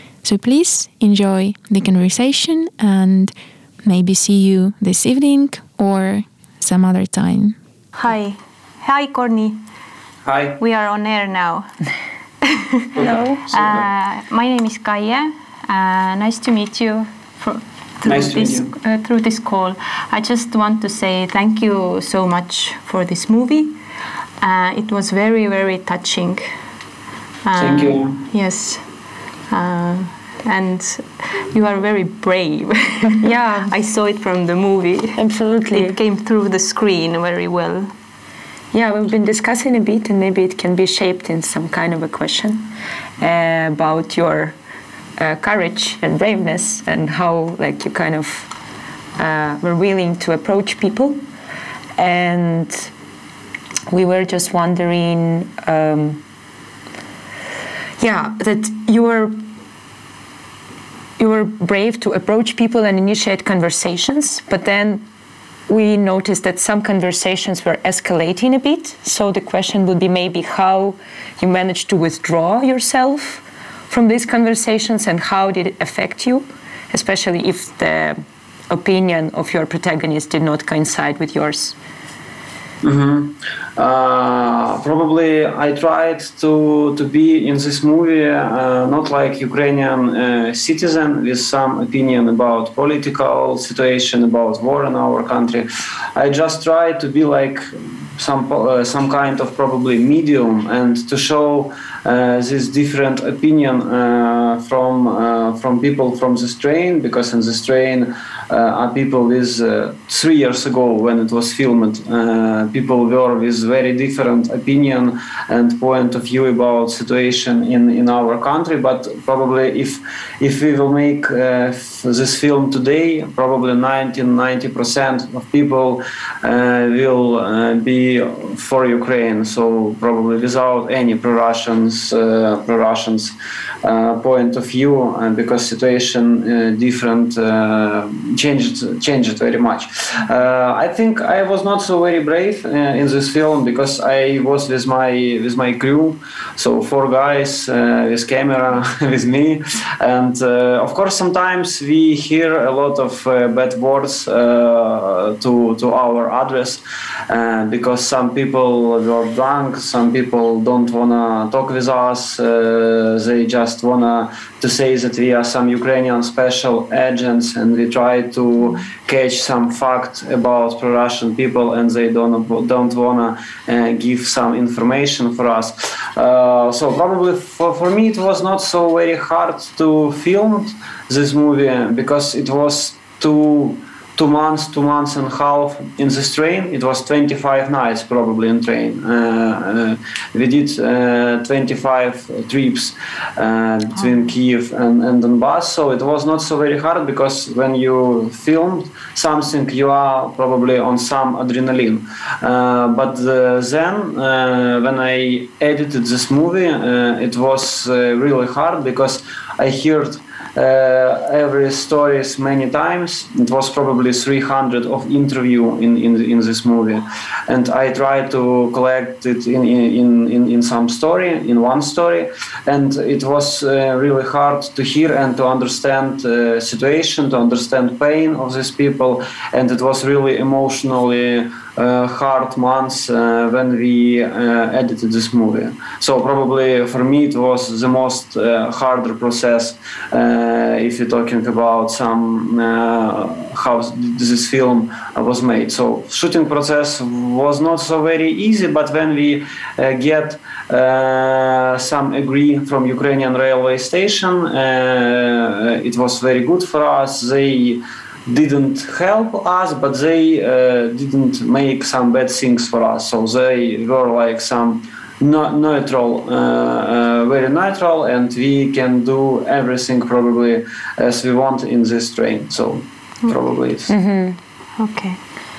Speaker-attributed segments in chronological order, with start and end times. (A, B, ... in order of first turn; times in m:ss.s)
0:00.2-0:03.3 A
0:03.8-0:07.6 A
0:08.0-0:09.6 B
0:10.2-0:10.6 C
0:10.6-0:11.7 B
0:12.4-0:12.9 B
0:13.0-0:13.8 C
0:13.0-0:13.5 D
0:13.5-0:23.7 B
0:18.0-0:18.7 C
0:24.4-0:26.4 B
0:27.4-0:28.8 B
0:27.6-0:28.2 C
0:29.5-0:35.2 B
0:33.2-0:33.7 D
0:35.2-0:36.0 D
0:35.7-0:37.9 B
0:38.7-0:44.5 D
0:45.2-0:48.5 D
0:49.2-0:51.2 D
0:52.0-0:52.9 D
0:53.9-0:56.2 D
0:58.0-0:59.4 D
1:01.2-1:05.0 D
1:05.7-1:21.8 D
1:22.8-4:33.9 C
4:33.9-4:34.4 D
4:34.8-4:35.2 B